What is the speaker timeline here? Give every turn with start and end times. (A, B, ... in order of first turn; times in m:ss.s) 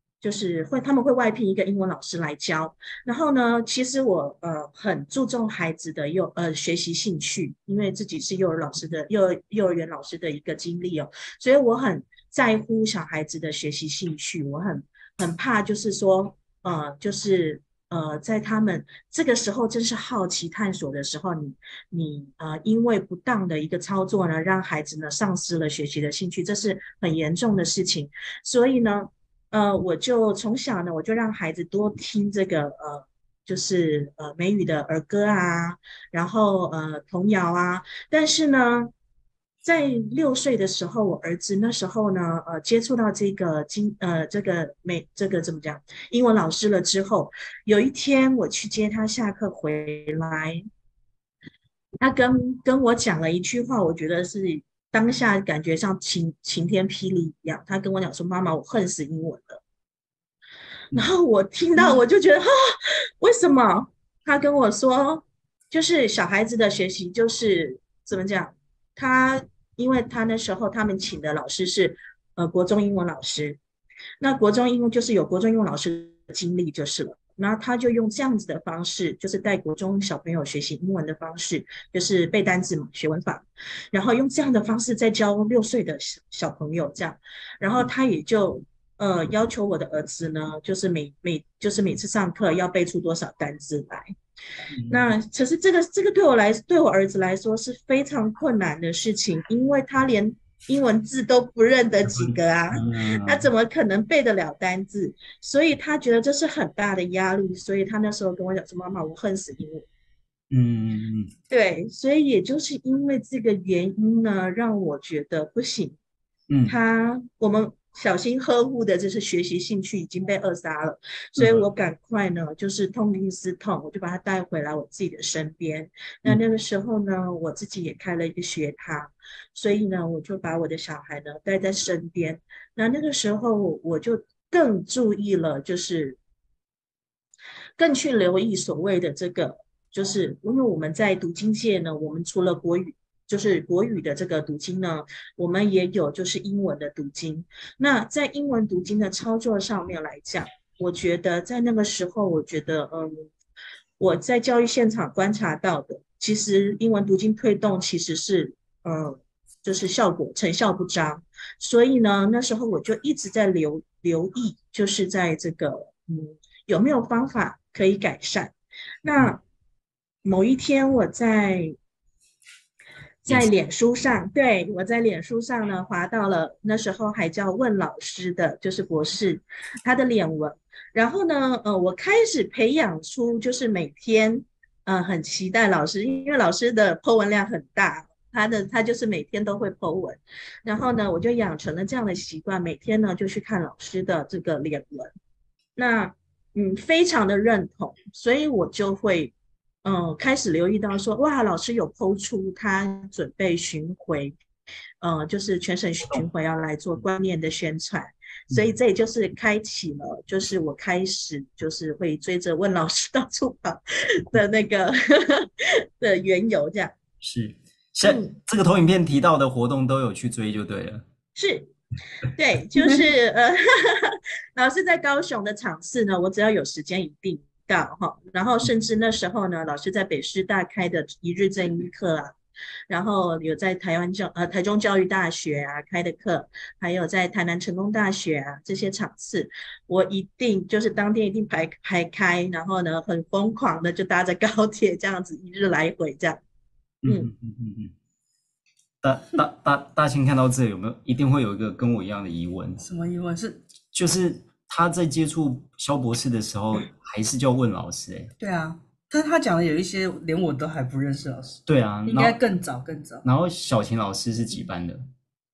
0:00.2-0:38.9 A
0:39.6-0:50.6 A
0:52.0-0:59.6 A
1:00.9-1:13.6 A
1:14.2-1:34.1 A
1:34.8-1:35.1 B
1:34.9-1:49.9 A
1:42.1-1:43.5 B
1:50.5-1:51.3 B
1:51.5-1:56.0 A
1:56.5-1:56.8 B
1:56.7-2:16.2 A
2:01.4-2:01.7 B
2:17.8-2:33.3 A
2:34.0-2:49.4 A
2:50.2-2:51.8 A
2:53.2-3:15.1 A
3:15.8-3:24.4 A
3:25.0-3:36.9 A
3:37.2-3:41.0 B
3:38.0-3:38.4 A
3:41.4-3:41.7 A
3:42.2-3:52.4 A
3:52.9-4:06.4 A
4:07.0-4:07.9 B
4:09.0-4:12.9 B
4:12.8-4:13.6 C
4:13.9-4:18.3 B
4:18.4-4:23.3 C
4:21.7-4:22.4 B
4:23.2-4:25.0 B